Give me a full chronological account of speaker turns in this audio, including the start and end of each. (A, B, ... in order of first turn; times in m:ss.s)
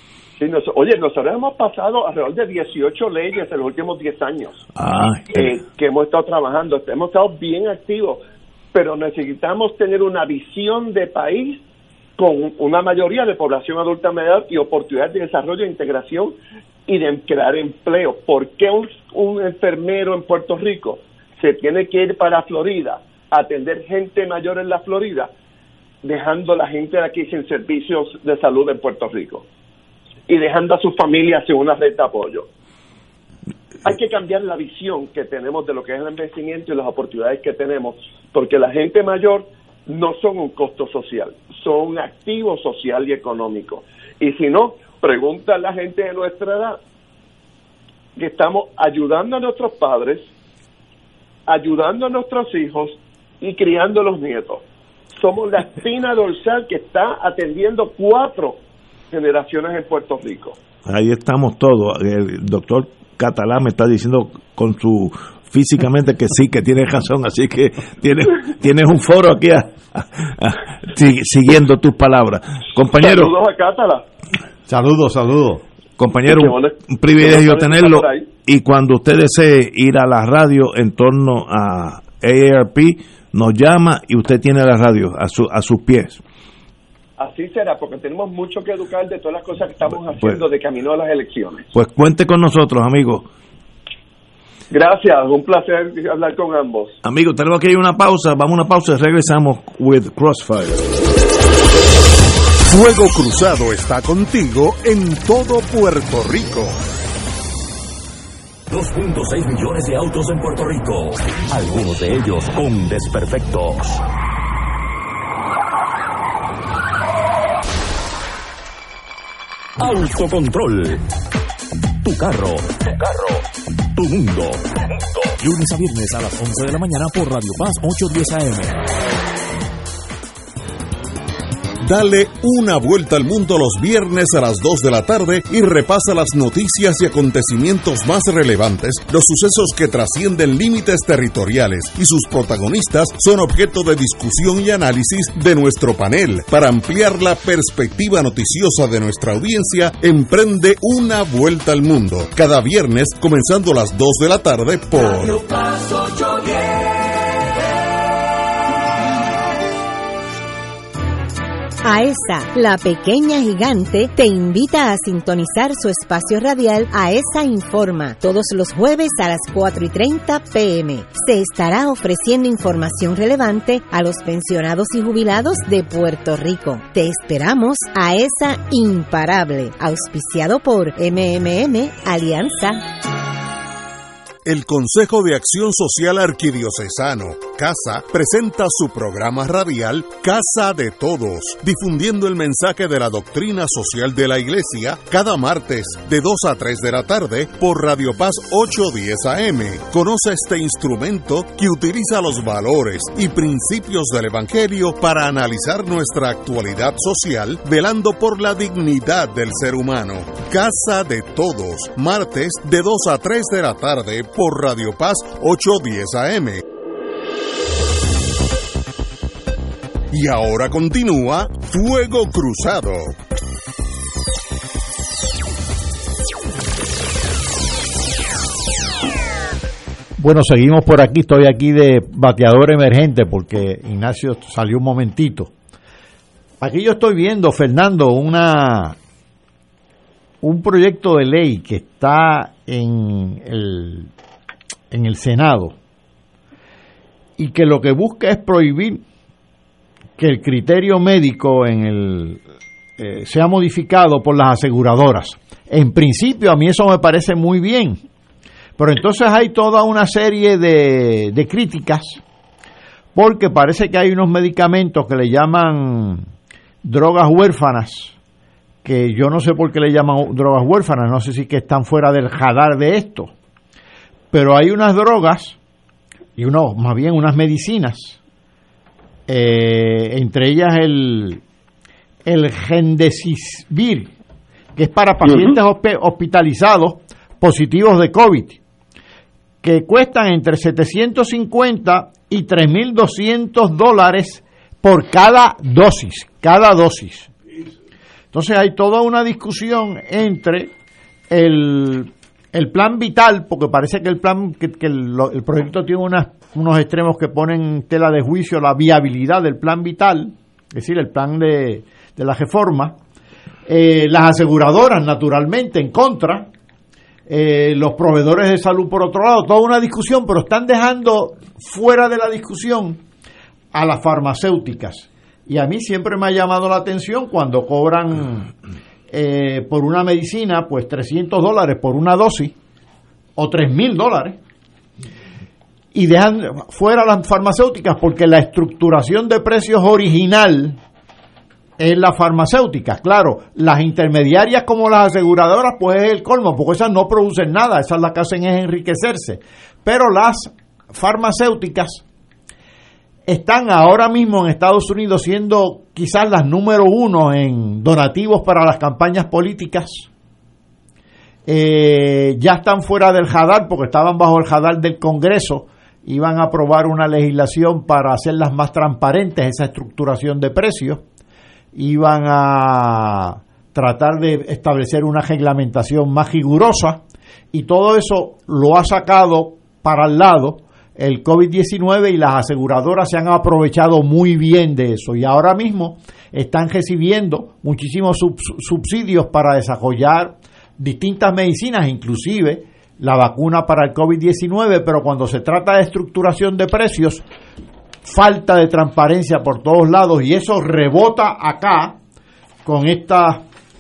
0:00.4-0:04.6 A
0:04.8-0:05.6 B
0:05.4-0:08.2 A
0:08.7-0:11.6 A
0:12.2-0:25.3 A
0:26.0-0:29.5 A
0:30.3-0:32.5 A
0:33.8-0:46.8 A
0:48.2-0:50.3 A
0:51.5-0:58.6 A
0:59.1-1:00.6 A
1:00.9-1:13.4 B
1:13.0-1:14.0 A
1:14.7-1:15.6 C
1:16.0-1:26.2 B
1:16.3-1:18.3 A
1:27.2-1:31.7 A
1:30.2-1:30.4 B
1:31.7-1:33.3 B
1:34.7-1:37.0 A
1:37.0-1:40.9 B
1:42.6-1:46.8 D
1:48.7-1:54.0 E
1:59.8-2:01.0 E
2:02.0-2:03.4 E
2:04.0-2:04.6 E
2:05.3-2:08.8 E
2:11.8-2:35.5 D
2:41.8-3:02.8 F
3:04.4-3:36.6 D
3:40.1-3:43.2 D
3:50.2-3:55.5 C
3:56.6-3:59.0 C
4:00.4-4:04.1 C
4:04.9-4:05.8 C
4:07.4-4:09.0 C
4:10.2-4:12.4 C
4:13.0-4:18.0 C
4:18.8-4:22.2 C
4:23.2-4:26.2 C
4:26.8-4:28.2 C
4:28.8-4:33.3 C
4:34.3-4:35.6 C
4:36.4-4:38.2 C
4:39.3-4:41.4 C
4:42.2-4:44.1 C
4:44.8-4:48.6 C
4:49.6-4:57.3 C
4:58.3-5:00.7 C
5:01.3-5:13.0 C
5:13.7-5:16.5 C
5:17.3-5:23.0 C
5:23.7-5:28.5 C
5:29.1-5:32.6 C
5:33.4-5:34.4 C
5:35.9-5:40.8 C
5:41.8-5:52.0 C
5:53.3-6:00.1 C
6:01.5-6:11.0 C
6:11.7-6:37.2 C
6:38.0-6:42.0 C
6:42.6-6:43.4 C